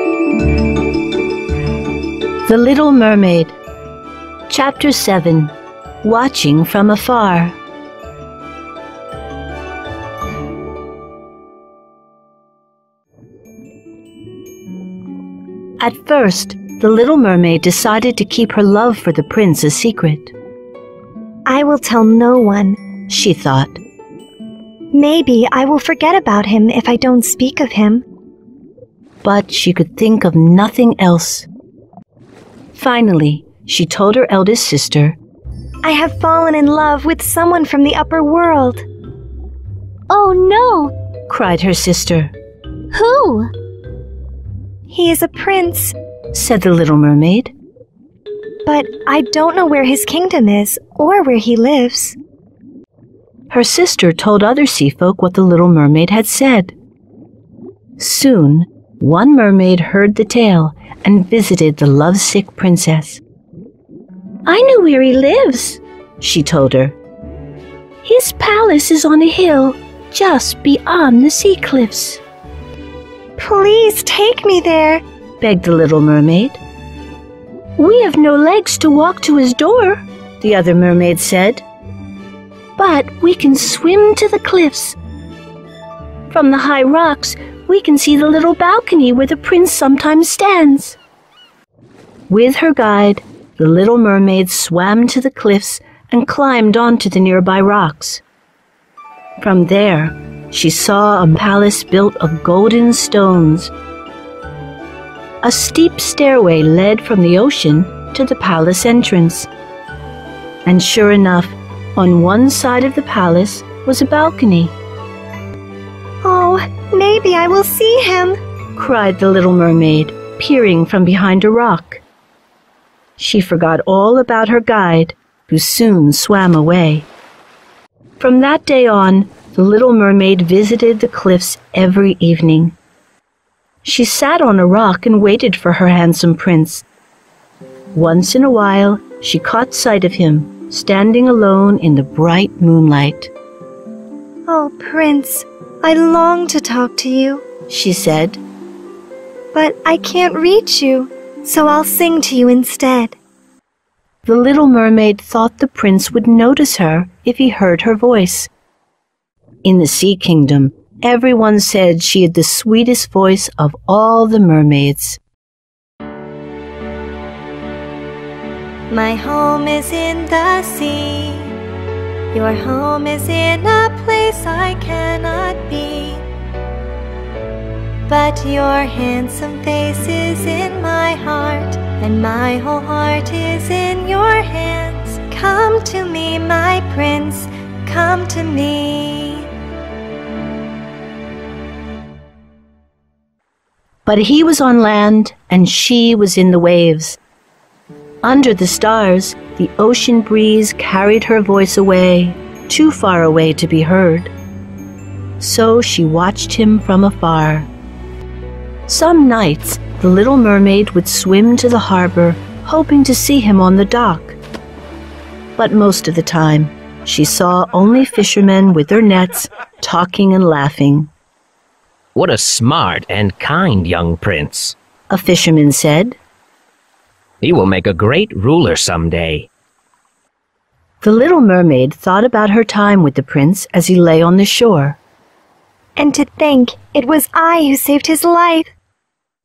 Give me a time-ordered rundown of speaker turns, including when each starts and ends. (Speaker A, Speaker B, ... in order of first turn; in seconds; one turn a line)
Speaker A: 2.5-3.6
Speaker A: 4.5-7.6
Speaker A: 15.8-20.3
Speaker B: 21.5-22.8
Speaker A: 23.1-23.8
Speaker B: 24.9-28.1
Speaker A: 29.2-31.5
Speaker A: 32.7-35.2
Speaker B: 35.8-38.9
Speaker B: 40.1-40.9
Speaker A: 41.3-42.3
Speaker B: 42.9-43.4
Speaker B: 44.9-46.0
Speaker A: 46.3-47.5
Speaker B: 48.6-52.2
Speaker A: 53.5-56.7
Speaker A: 58.0-63.2
Speaker A: 64.5-67.0
Speaker A: 68.0-72.2
Speaker B: 73.4-75.0
Speaker A: 75.4-76.6
Speaker A: 77.8-81.6
Speaker A: 82.8-85.0
Speaker A: 86.3-91.0
Speaker A: 92.3-98.2
Speaker A: 99.4-103.7
Speaker A: 105.4-109.5
Speaker A: 110.7-114.8
Speaker B: 116.2-118.4
Speaker A: 118.8-122.0
Speaker A: 123.2-127.1
Speaker A: 128.2-132.8
Speaker A: 133.8-136.8
Speaker A: 137.9-143.3
Speaker B: 144.5-147.4
Speaker A: 147.7-148.4
Speaker B: 149.5-153.2
Speaker A: 154.2-158.5
Speaker A: 159.6-165.2
Speaker B: 168.9-171.6
Speaker B: 172.3-176.2
Speaker B: 178.1-189.5
Speaker A: 194.1-197.2
Speaker A: 198.2-204.3
Speaker A: 205.4-207.7
Speaker A: 208.9-214.4
Speaker A: 215.6-221.1
Speaker C: 222.2-224.8
Speaker A: 225.1-226.2
Speaker C: 227.4-229.5
Speaker A: 231.0-235.0
Speaker B: 236.0-238.7